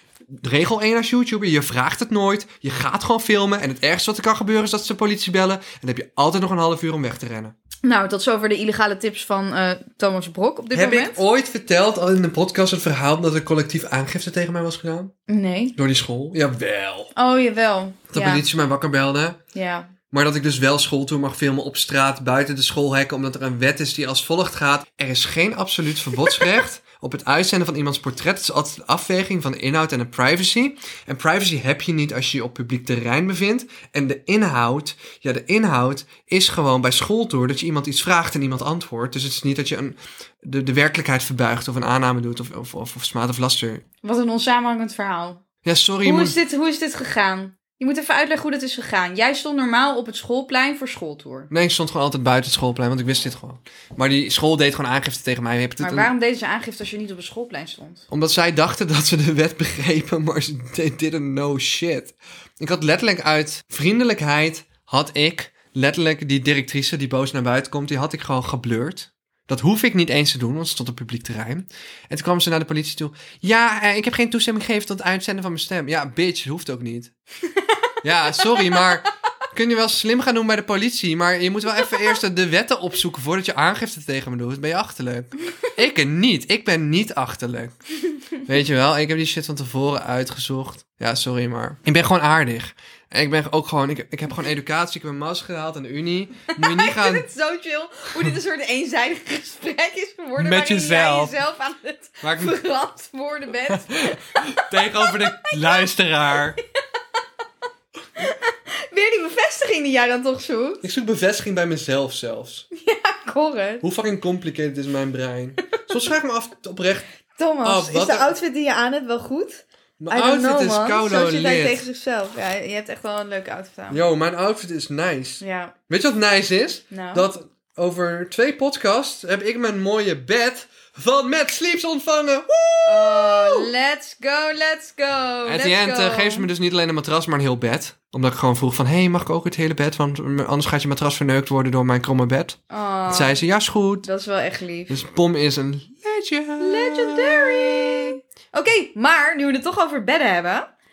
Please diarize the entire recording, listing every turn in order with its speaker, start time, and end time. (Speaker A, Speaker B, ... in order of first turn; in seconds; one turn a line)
Speaker A: 0.4-7.5
Speaker B: 7.8-11.2
Speaker A: 10.7-15.1
Speaker B: 15.3-15.8
Speaker A: 15.8-17.1
Speaker B: 17.1-18.4
Speaker A: 18.1-19.4
Speaker B: 19.5-19.9
Speaker A: 20.1-43.8
Speaker B: 44.0-45.4
Speaker A: 45.6-46.4
Speaker B: 46.0-51.5
Speaker A: 51.5-56.1
Speaker B: 55.8-58.1
Speaker A: 58.1-77.1
Speaker A: 78.0-87.7
Speaker B: 78.3-78.9
Speaker A: 88.4-97.3
Speaker B: 96.6-106.6
Speaker A: 100.4-101.3
Speaker A: 102.2-102.6
Speaker A: 103.7-106.6
Speaker B: 108.2-110.8
Speaker A: 110.8-112.7
Speaker B: 112.7-113.8
Speaker A: 113.8-117.0
Speaker B: 117.4-124.0
Speaker A: 117.6-118.3
Speaker A: 120.0-121.8
Speaker A: 123.9-133.7
Speaker B: 125.4-125.8
Speaker B: 126.9-127.3
Speaker B: 132.9-136.5
Speaker A: 135.4-144.1
Speaker B: 142.7-143.3
Speaker B: 144.1-145.0
Speaker A: 144.9-148.1
Speaker B: 146.6-150.7